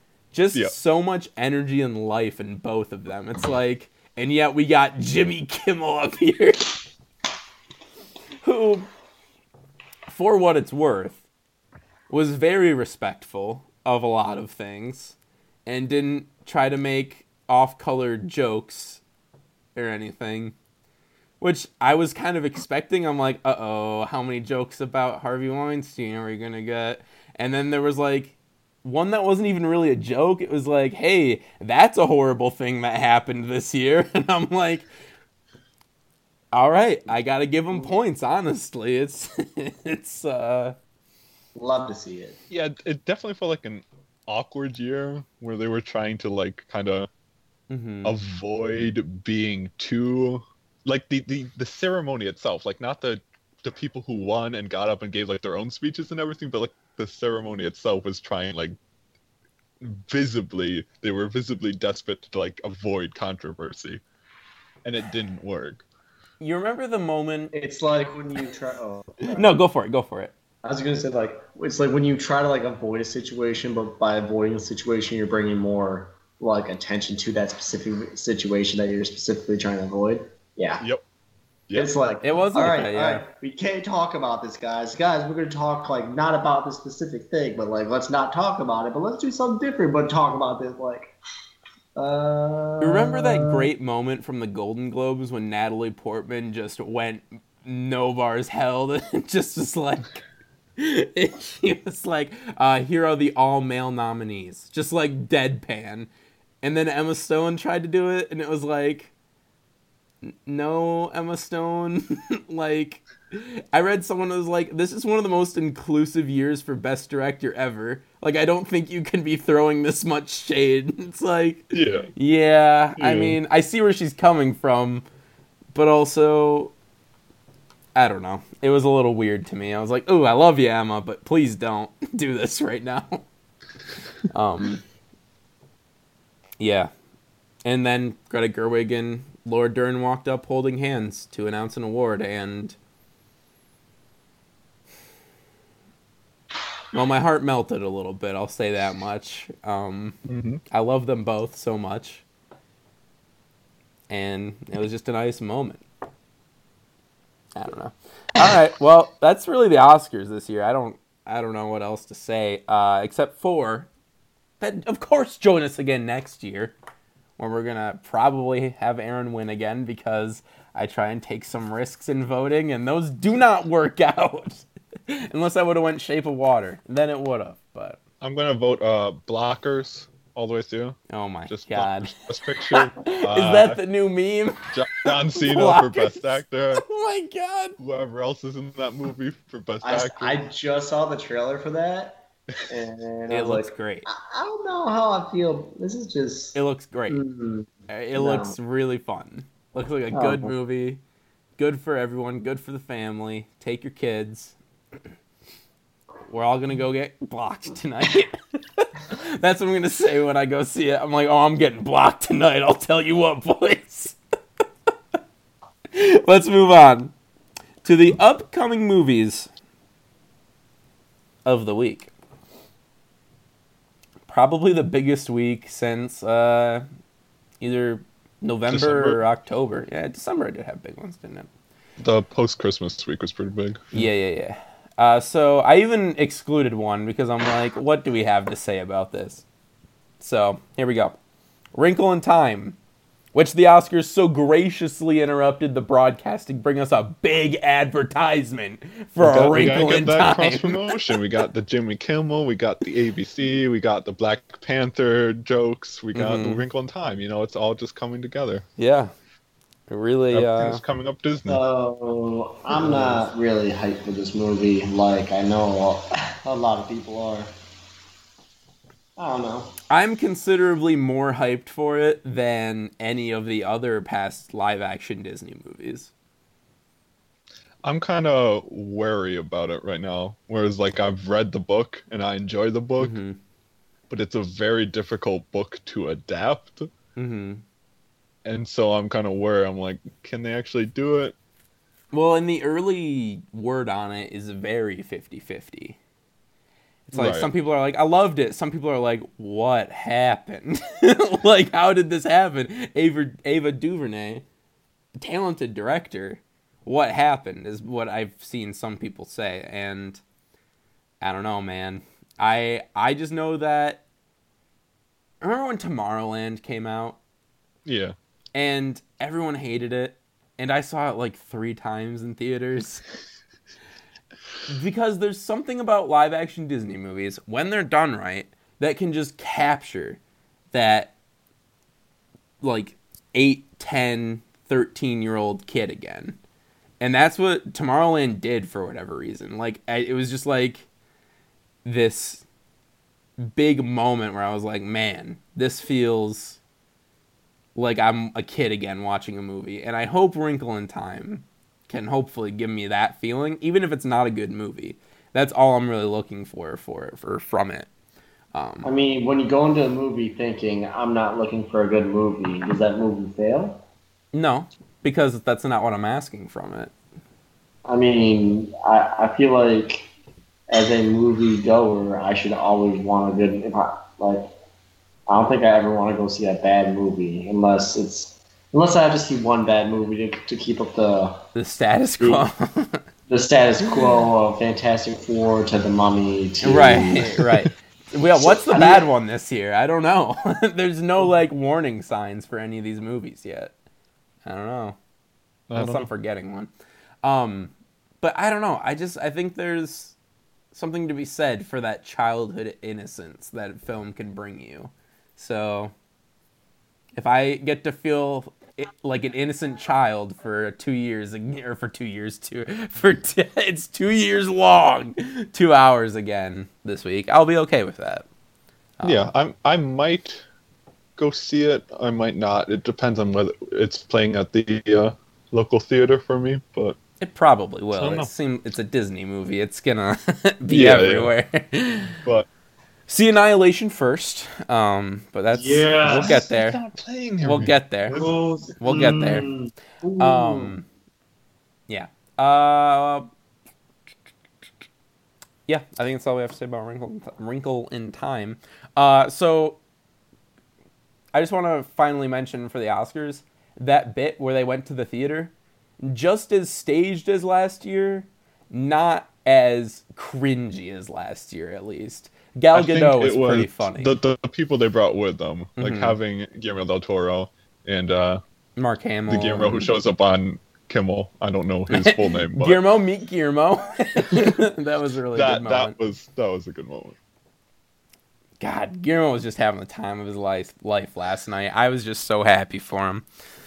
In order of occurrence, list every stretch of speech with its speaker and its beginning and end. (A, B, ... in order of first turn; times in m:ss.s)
0:00.3-0:06.8 A
0:08.4-0:08.9 A
0:10.1-0:11.2 A
0:12.1-0:19.0 A
0:19.7-0:20.5 A
0:21.4-0:34.9 A
0:36.5-0:40.8 A
0:41.5-0:42.4 B
0:42.5-0:47.1 C
0:47.7-0:48.2 A
0:48.0-0:58.8 C
0:59.8-1:04.0 C
1:04.8-1:05.8 C
1:06.4-1:07.5 A
1:07.5-1:09.5 B
1:09.2-1:10.3 A
1:10.6-1:20.8 B
1:21.8-1:31.1 B
1:22.2-1:23.2 A
1:32.0-1:33.7 B
1:32.8-1:40.2 A
1:40.8-1:46.1 A
1:46.6-1:49.1 A
1:50.2-2:05.0 A
2:01.7-2:02.1 C
2:03.0-2:03.4 C
2:05.7-2:06.7 A
2:08.0-2:13.2 A
2:14.3-2:14.8 A
2:16.6-2:16.9 A
2:17.6-2:22.8 A
2:26.9-2:30.2 A
2:30.2-2:30.6 C
2:30.7-2:32.2 A
2:34.1-2:35.8 A
2:37.6-2:43.9 A
2:44.6-2:46.7 A
2:47.4-2:58.0 A
2:58.2-3:03.8 C
3:01.1-3:02.2 A
3:02.7-3:07.8 A
3:04.7-3:06.8 C
3:07.8-3:10.4 C
3:09.8-3:18.6 B
3:13.3-3:14.1 A
3:16.5-3:17.2 A
3:17.9-3:21.0 A
3:20.1-3:20.5 B
3:21.6-3:24.6 A
3:26.3-3:34.2 A
3:35.9-3:37.1 A
3:37.8-3:39.5 A
3:41.4-3:42.1 A
3:44.3-3:46.8 A
3:47.6-3:51.5 A
3:48.7-3:49.2 C
3:52.0-3:54.0 C
3:53.9-3:59.4 A
4:00.2-4:01.2 A
4:01.7-4:02.8 A
4:03.3-4:11.2 A
4:09.2-4:18.6 C
4:16.1-4:16.6 A
4:18.8-4:19.1 A
4:19.9-4:20.8 A
4:20.3-4:21.6 C
4:21.5-4:27.5 B
4:22.7-4:23.3 A
4:29.2-4:29.7 B
4:29.9-4:36.1 A
4:37.8-4:43.2 C
4:43.0-4:43.4 A
4:44.1-4:46.9 C
4:47.2-4:47.6 A
4:48.4-4:51.3 C
4:52.1-4:56.0 A
4:57.1-5:04.4 A
4:57.1-4:57.5 C
5:05.2-5:10.2 A
5:11.2-5:14.0 A
5:15.4-5:17.2 A
5:17.8-5:18.1 C
5:18.5-5:23.0 A
5:24.7-5:30.2 A
5:30.7-5:31.1 A
5:32.6-5:36.4 A
5:37.0-5:40.8 A
5:41.8-5:42.4 A
5:43.4-5:46.6 A
5:47.8-5:57.9 A
5:58.5-5:58.9 A
5:58.8-6:03.8 B
6:04.3-6:06.9 A
6:07.8-6:10.1 B
6:10.7-6:14.5 B
6:15.3-6:21.4 B
6:21.5-6:23.0 A
6:22.2-6:22.5 C
6:23.3-6:27.3 B
6:26.6-6:33.7 A
6:28.4-6:29.0 B
6:34.4-6:35.0 A
6:35.7-6:36.1 C
6:35.7-6:36.7 A
6:37.2-6:40.2 A
6:40.7-6:45.9 A
6:47.2-6:58.2 A
6:59.0-6:59.3 A
6:59.0-7:00.4 C
7:01.2-7:07.0 C
7:07.2-7:12.2 A
7:07.9-7:08.3 C
7:10.7-7:11.3 C
7:12.2-7:12.5 C
7:13.1-7:16.8 A
7:15.5-7:16.4 B
7:16.0-7:18.3 C
7:17.4-7:18.2 A
7:18.1-7:20.7 B
7:18.8-7:19.5 A
7:20.2-7:20.9 A
7:21.9-7:23.3 A
7:25.7-7:29.8 A
7:31.3-7:44.2 A
7:42.7-7:48.4 C
7:45.8-7:46.2 A
7:48.8-7:49.9 A
7:49.3-7:52.8 C
7:51.9-7:55.9 A
7:55.3-7:57.2 C
7:58.6-8:03.2 A